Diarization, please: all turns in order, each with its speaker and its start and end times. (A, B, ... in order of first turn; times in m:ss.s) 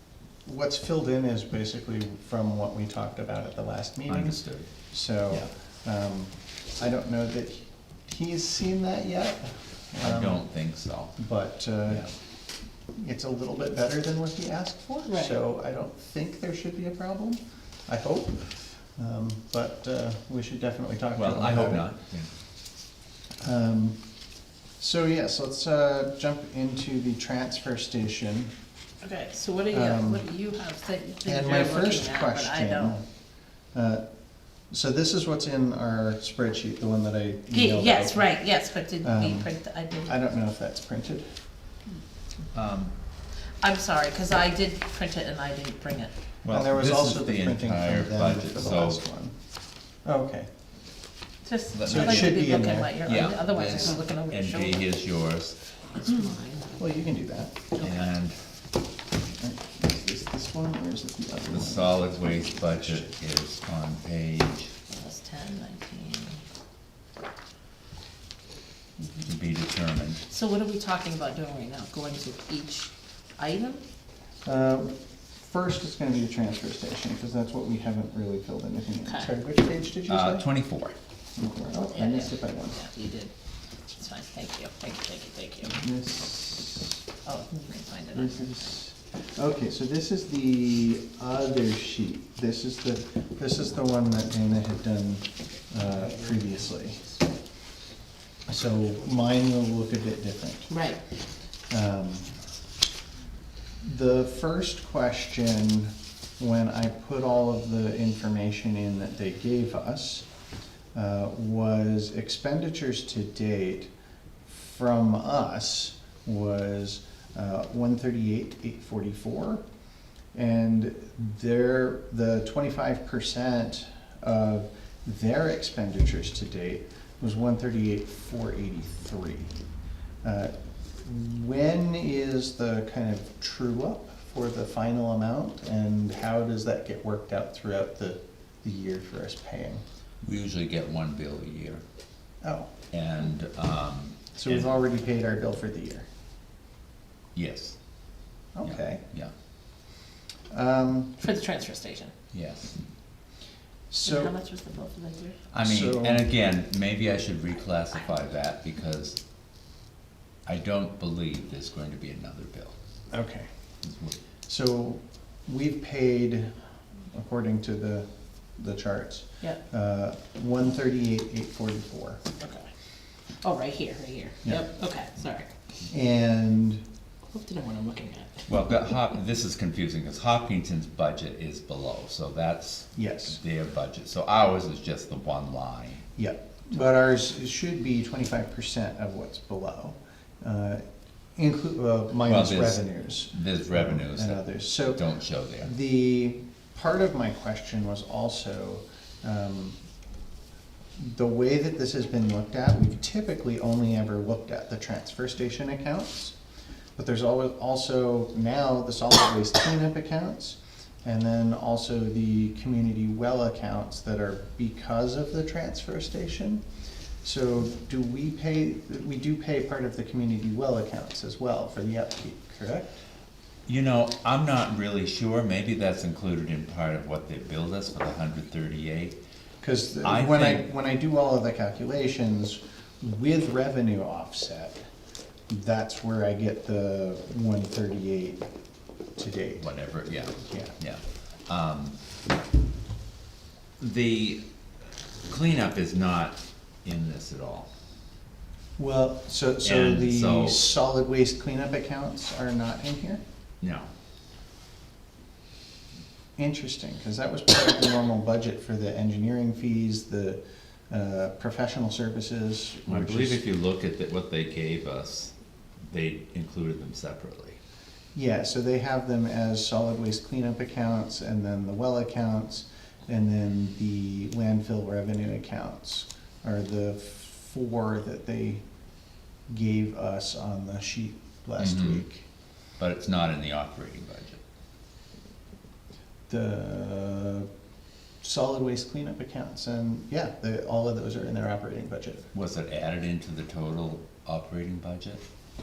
0:00.4-0:04.4 A
0:04.1-0:04.7 B
0:04.9-0:10.4 A
0:10.0-0:11.2 B
0:11.2-0:12.1 A
0:12.9-0:21.9 A
0:15.1-0:15.4 C
0:21.2-0:22.3 B
0:23.4-0:24.0 A
0:24.8-0:28.5 A
0:29.0-0:33.0 C
0:29.7-0:30.2 A
0:31.2-0:33.0 A
0:33.7-0:34.0 A
0:34.7-0:38.2 A
0:37.5-0:40.1 C
0:39.0-0:39.5 A
0:40.0-0:41.3 A
0:42.5-0:42.9 B
0:43.6-0:46.1 C
0:46.4-0:49.0 B
0:46.5-0:49.3 A
0:50.0-0:50.5 A
0:51.4-0:54.8 C
0:51.7-0:52.4 B
0:51.8-0:52.9 A
0:53.0-0:55.6 B
0:55.9-0:56.8 C
0:56.8-0:57.6 A
0:57.8-0:58.4 B
0:59.4-1:03.1 A
1:01.5-1:04.7 B
1:04.9-1:06.4 C
1:09.2-1:10.2 B
1:10.3-1:13.8 C
1:14.4-1:20.4 A
1:20.1-1:20.9 B
1:21.4-1:22.8 A
1:21.9-1:23.3 C
1:23.9-1:25.8 C
1:25.7-1:27.0 A
1:27.2-1:28.7 C
1:28.1-1:37.0 A
1:38.5-1:40.7 A
1:40.7-1:41.0 C
1:41.7-1:42.3 A
1:43.8-1:50.2 A
1:50.9-1:53.9 A
1:54.4-1:59.6 A
2:00.3-2:09.5 A
2:10.2-2:19.8 A
2:20.2-2:21.8 B
2:22.4-2:22.7 A
2:22.9-2:24.6 B
2:24.3-2:26.1 A
2:27.3-2:27.8 B
2:28.5-2:29.0 A
2:28.6-2:29.3 B
2:30.5-2:31.1 A
2:31.2-2:32.1 C
2:32.3-2:32.8 B
2:33.9-2:34.3 A
2:34.0-2:35.4 C
2:35.5-2:39.2 B
2:35.6-2:36.3 A
2:40.4-2:42.7 B
2:43.1-2:43.5 A
2:43.8-2:44.1 B
2:44.5-2:46.5 A
2:47.1-2:52.2 A
2:52.4-2:52.6 C
2:53.4-2:55.5 C
2:55.9-2:56.8 A
2:57.3-2:58.4 C
2:58.5-3:06.0 B
3:02.9-3:03.4 A
3:06.2-3:10.8 A
3:11.4-3:15.0 A
3:12.2-3:15.7 B
3:15.6-3:19.8 A
3:21.0-3:26.3 A
3:27.0-3:36.6 A
3:37.2-3:42.9 A
3:43.7-3:49.2 B
3:49.6-3:54.8 A
3:50.0-3:50.6 B
3:55.5-3:58.4 A
3:59.2-3:59.7 A
3:59.6-4:02.0 B
4:00.4-4:00.7 A
4:03.8-4:04.4 B
4:05.3-4:07.7 B
4:08.8-4:13.2 A
4:09.6-4:10.7 B
4:13.6-4:13.9 B
4:16.4-4:23.4 A
4:22.9-4:25.3 B
4:25.9-4:27.6 B
4:28.1-4:38.6 A
4:39.5-4:42.2 A
4:41.6-4:42.0 B
4:42.8-4:44.4 B
4:46.3-4:47.5 A
4:48.2-4:52.3 A
4:52.3-4:55.2 B